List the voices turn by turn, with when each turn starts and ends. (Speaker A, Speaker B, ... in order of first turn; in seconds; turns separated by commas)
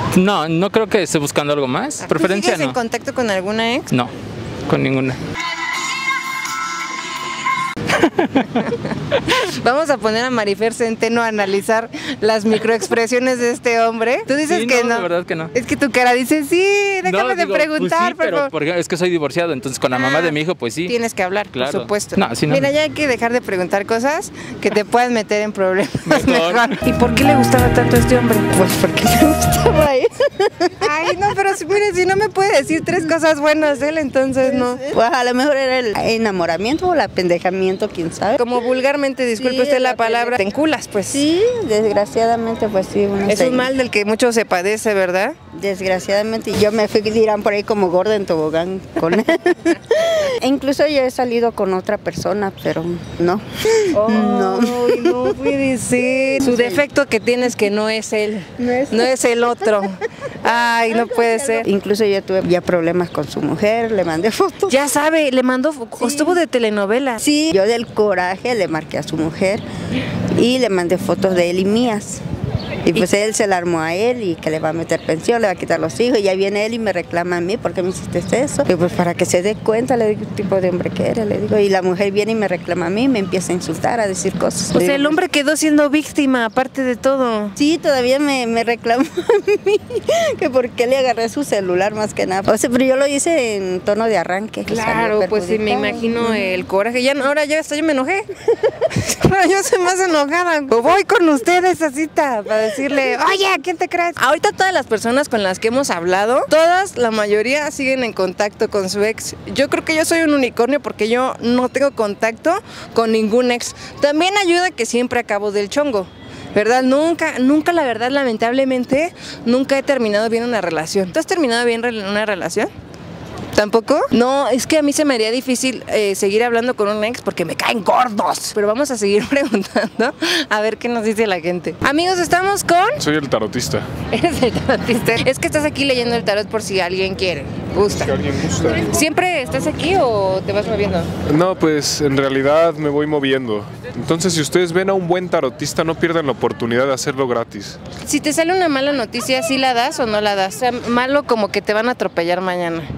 Speaker A: 0.1-2.8, Speaker B: 2.0-3.9, Speaker A: 4.7-5.2, Speaker B: 8.4-18.5, Speaker A: 14.4-15.5, Speaker A: 17.0-20.9, Speaker B: 19.9-28.5, Speaker A: 21.5-22.7, Speaker A: 26.1-26.7, Speaker C: 28.5-30.9, Speaker B: 30.8-34.8, Speaker C: 34.4-38.4, Speaker B: 38.4-41.2, Speaker C: 39.4-40.4, Speaker C: 41.1-43.7, Speaker B: 43.3-45.3, Speaker C: 45.5-55.3, Speaker B: 53.9-61.6, Speaker C: 56.4-56.8, Speaker C: 58.6-59.9, Speaker C: 60.4-64.8, Speaker B: 64.7-67.2, Speaker C: 66.0-66.4, Speaker C: 67.2-69.6, Speaker C: 70.3-72.2, Speaker C: 72.8-85.2, Speaker B: 84.7-87.5, Speaker C: 87.5-96.7, Speaker B: 94.7-98.3, Speaker B: 98.9-122.7, Speaker B: 123.5-133.0, Speaker D: 133.0-133.8, Speaker B: 134.1-138.1, Speaker D: 137.9-138.9, Speaker B: 138.8-141.1, Speaker D: 141.3-147.8, Speaker B: 148.0-152.9